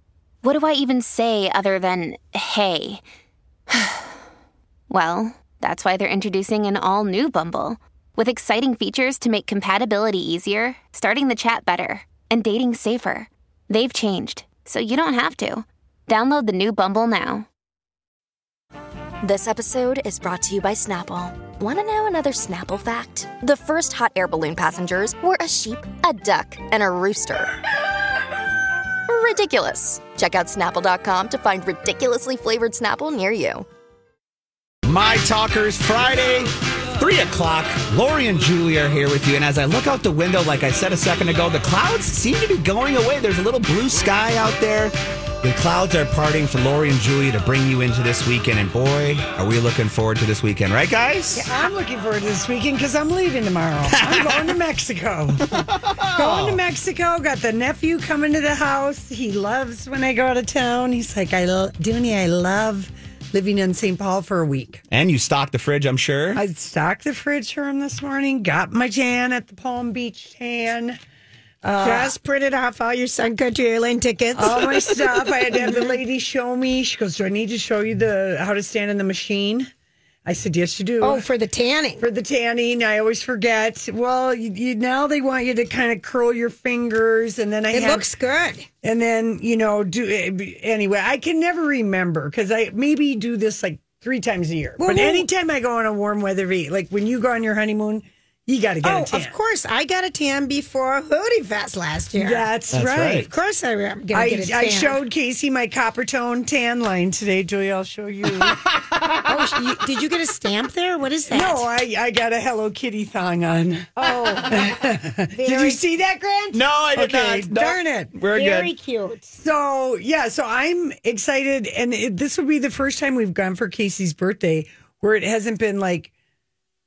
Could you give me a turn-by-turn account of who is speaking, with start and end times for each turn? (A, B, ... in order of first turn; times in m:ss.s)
0:00.4-0:03.0 A
0:03.7-0:04.1 A
0:04.9-0:17.4 A
0:19.2-0:27.6 B
0:29.1-0:33.6 B
0:34.8-0:51.5 C
0:51.3-1:04.8 D
0:53.9-0:54.5 C
0:55.6-0:56.6 C
1:04.9-1:06.4 C
1:06.3-1:11.0 D
1:11.6-1:12.1 D
1:11.8-1:14.9 E
1:14.3-1:19.7 D
1:15.5-1:16.0 E
1:20.2-1:21.2 D
1:21.0-1:22.0 E
1:22.0-1:28.1 D
1:27.7-1:28.7 E
1:28.8-1:39.3 D
1:34.8-1:35.2 E
1:38.8-1:42.5 E
1:42.2-1:43.3 D
1:42.7-1:43.3 C
1:43.3-1:45.0 E
1:44.1-1:48.6 D
1:48.4-1:49.2 C
1:49.2-1:51.6 E
1:51.3-1:58.1 D
1:54.0-1:55.8 E
1:56.5-1:58.7 C
1:58.3-1:59.3 E
1:59.3-2:06.1 D